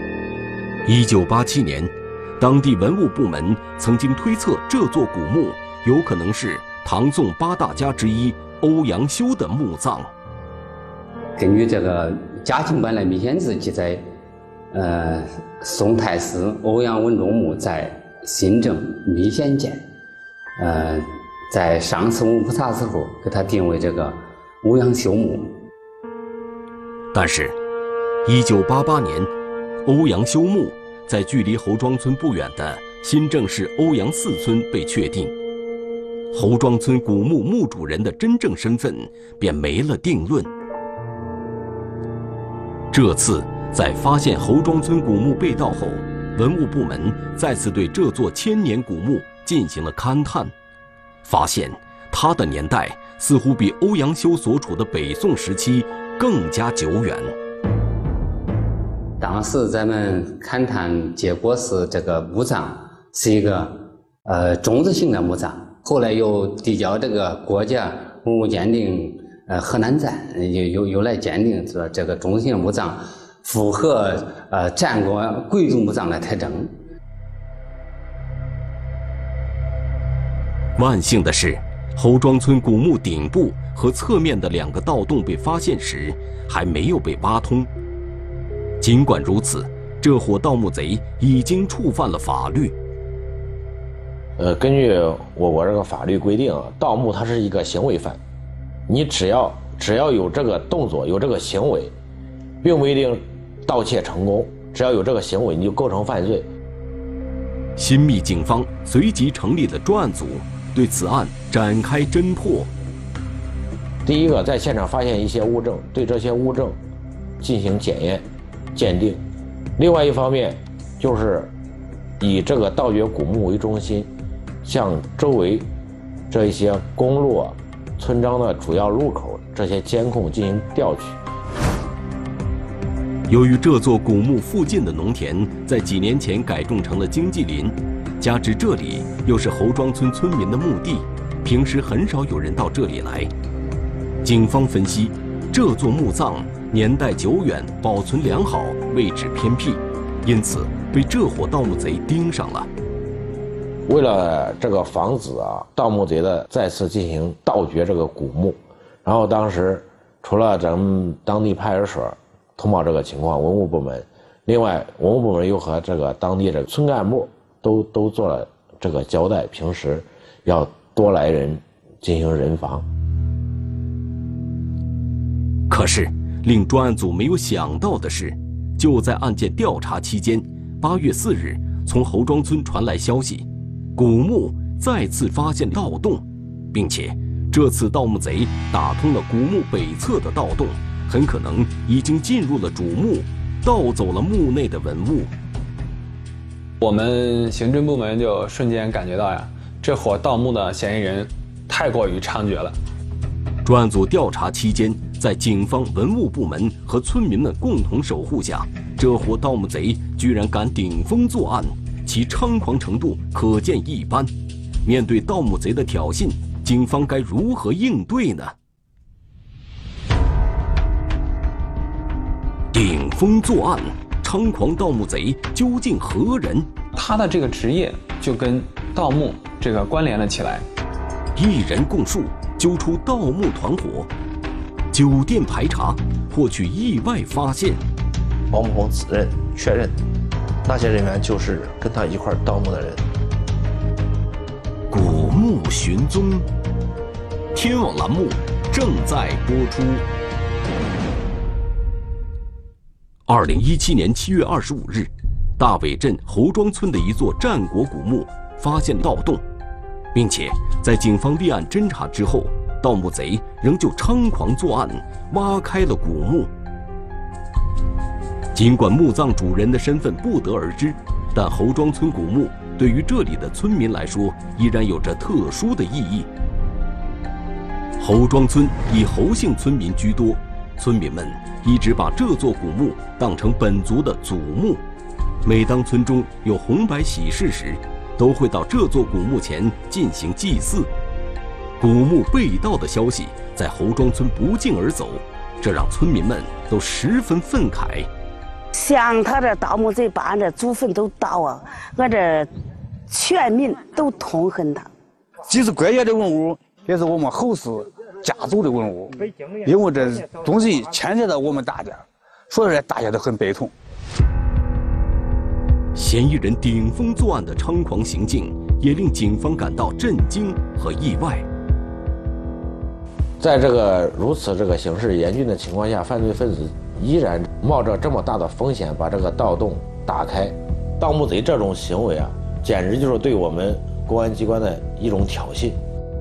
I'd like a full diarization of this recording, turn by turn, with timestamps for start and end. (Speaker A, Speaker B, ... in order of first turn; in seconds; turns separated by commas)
Speaker A: 0.8-10.1, Speaker B: 11.4-14.0, Speaker B: 14.7-19.9, Speaker B: 20.6-25.6, Speaker A: 27.1-27.6, Speaker A: 28.2-29.3, Speaker A: 29.8-35.3, Speaker A: 36.3-40.5, Speaker A: 42.9-50.5, Speaker A: 51.2-57.3, Speaker B: 59.2-76.7, Speaker A: 80.8-87.7, Speaker A: 88.8-92.7, Speaker C: 94.4-98.2, Speaker C: 98.9-101.9, Speaker C: 102.6-106.5, Speaker A: 107.8-112.7, Speaker C: 114.0-116.8, Speaker C: 117.4-119.2, Speaker C: 119.8-121.5, Speaker C: 122.2-124.1, Speaker C: 124.6-125.7, Speaker C: 126.3-131.2, Speaker A: 133.3-143.3, Speaker A: 144.2-152.7, Speaker C: 153.9-172.8, Speaker A: 175.7-195.3, Speaker D: 196.8-202.8, Speaker A: 203.6-214.3, Speaker A: 214.8-218.5, Speaker A: 222.7-226.7, Speaker D: 226.9-230.7, Speaker A: 231.3-234.1, Speaker A: 234.9-237.8, Speaker E: 238.5-239.9, Speaker E: 240.6-243.0, Speaker A: 244.9-246.5, Speaker A: 247.5-250.0, Speaker A: 253.3-259.4, Speaker A: 260.1-266.5, Speaker A: 268.5-276.3, Speaker A: 278.0-284.8, Speaker A: 285.4-290.9, Speaker A: 291.8-298.1, Speaker F: 298.7-302.5, Speaker F: 303.1-304.9, Speaker G: 305.4-313.7, Speaker A: 315.9-321.5, Speaker C: 323.4-335.8